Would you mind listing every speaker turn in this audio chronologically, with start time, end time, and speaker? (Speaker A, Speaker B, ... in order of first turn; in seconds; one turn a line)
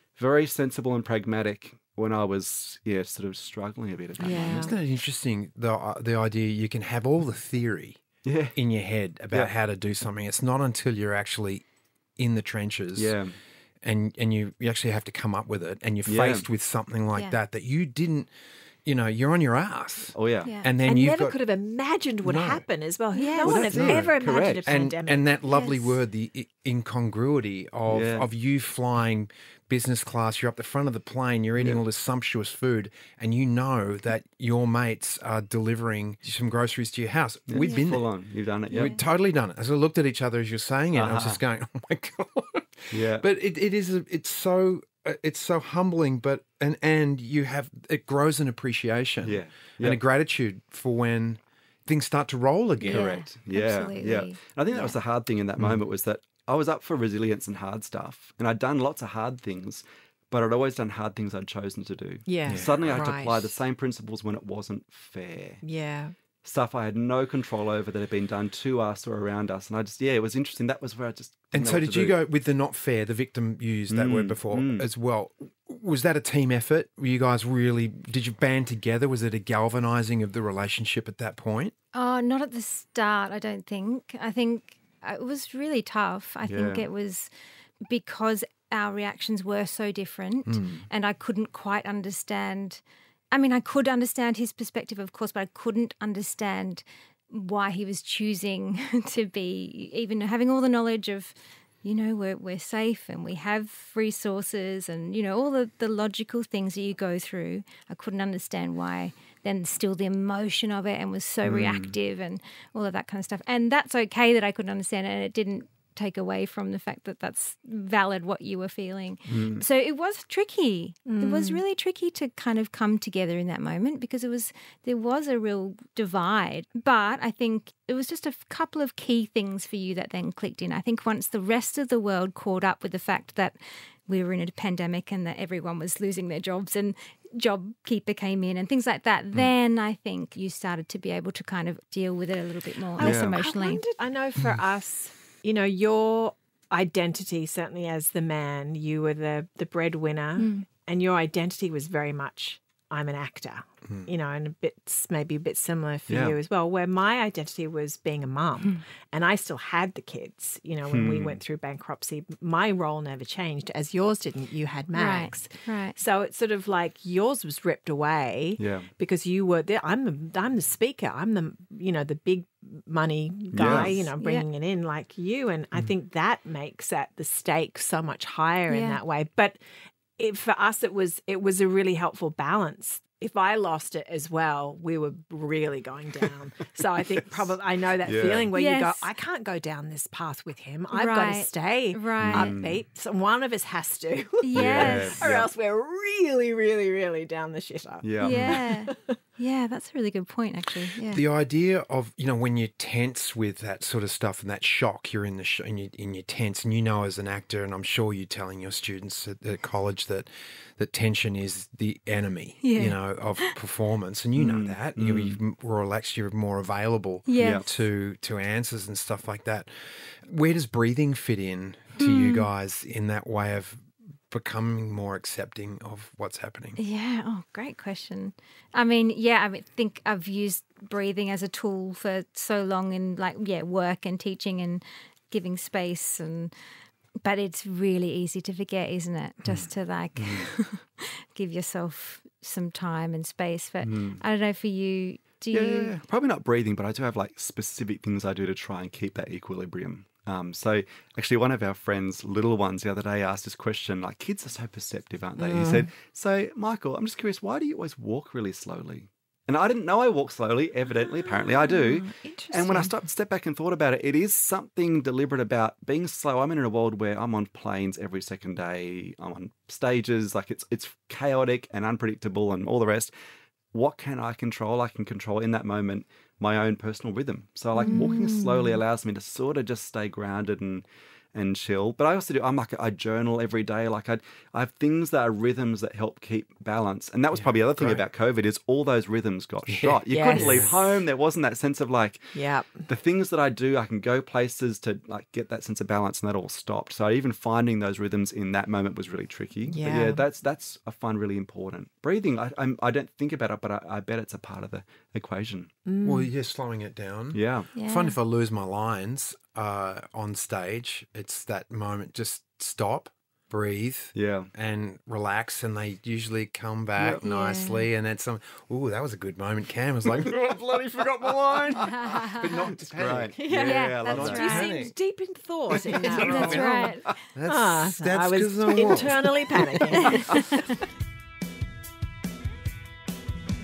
Speaker A: 0.2-4.7
Speaker B: 4.2-4.7
Speaker C: 4.3-8.0
Speaker A: 8.2-8.6
Speaker C: 8.5-11.6
Speaker C: 12.2-13.1
Speaker A: 12.9-13.3
Speaker C: 13.8-18.3
Speaker A: 16.1-16.4
Speaker C: 18.8-21.4
Speaker A: 20.1-20.5
Speaker D: 20.4-20.7
Speaker B: 20.8-25.2
Speaker C: 22.2-22.6
Speaker D: 23.1-23.6
Speaker A: 23.4-24.7
Speaker C: 23.5-24.1
Speaker C: 24.7-38.1
Speaker D: 25.5-25.9
Speaker A: 27.9-28.3
Speaker A: 37.5-39.0
Speaker D: 37.6-37.9
Speaker C: 38.7-53.1
Speaker D: 38.7-39.0
Speaker A: 40.9-41.4
Speaker A: 42.9-43.2
Speaker A: 49.2-50.0
Speaker A: 52.8-65.6
Speaker D: 52.8-55.0
Speaker B: 62.3-63.6
Speaker C: 62.5-63.0
Speaker B: 65.6-66.1
Speaker A: 66.4-72.2
Speaker C: 71.5-81.7
Speaker A: 73.9-74.9
Speaker D: 81.9-87.3
Speaker A: 86.5-86.9
Speaker D: 87.8-143.8
Speaker C: 90.5-90.8
Speaker A: 111.4-111.9
Speaker A: 119.3-119.6
Speaker B: 121.0-121.6
Speaker B: 143.0-179.6
Speaker A: 143.0-143.3
Speaker D: 150.4-150.7
Speaker A: 156.1-156.4
Speaker A: 160.9-161.4
Speaker D: 164.9-166.0
Speaker A: 168.6-168.9
Speaker A: 173.5-174.1
Speaker D: 174.2-174.4
Speaker D: 178.7-179.0
Speaker B: 180.2-199.2
Speaker A: 187.1-187.5
Speaker A: 188.0-188.5
Speaker D: 188.5-189.1
Speaker D: 190.9-192.6
Speaker A: 192.2-192.8
Speaker D: 194.4-195.2
Speaker A: 194.5-195.5
Speaker A: 198.0-198.6
Speaker D: 198.2-201.2
Speaker C: 201.1-226.8
Speaker D: 212.6-213.5
Speaker A: 214.3-215.4
Speaker D: 217.3-217.7
Speaker A: 217.4-217.7
Speaker D: 221.9-222.5
Speaker D: 226.8-236.5
Speaker D: 237.2-246.0
Speaker A: 240.2-240.5
Speaker A: 243.8-244.2
Speaker A: 245.5-273.1
Speaker B: 255.4-255.9
Speaker B: 261.2-262.9
Speaker A: 273.7-305.7
Speaker B: 277.8-278.8
Speaker D: 277.8-278.1
Speaker C: 287.3-288.0
Speaker C: 289.7-290.7
Speaker B: 290.1-290.7
Speaker B: 292.3-292.9
Speaker B: 299.6-300.2
Speaker B: 305.9-306.3
Speaker C: 306.0-324.9
Speaker A: 307.3-307.7
Speaker D: 307.7-308.1
Speaker A: 314.1-314.5
Speaker A: 317.0-317.2
Speaker B: 317.2-317.6
Speaker D: 321.8-322.5
Speaker A: 322.9-324.5
Speaker B: 323.4-330.6
Speaker D: 323.6-324.9
Speaker A: 325.7-326.7
Speaker C: 325.8-329.8
Speaker D: 326.1-327.2
Speaker D: 330.1-330.4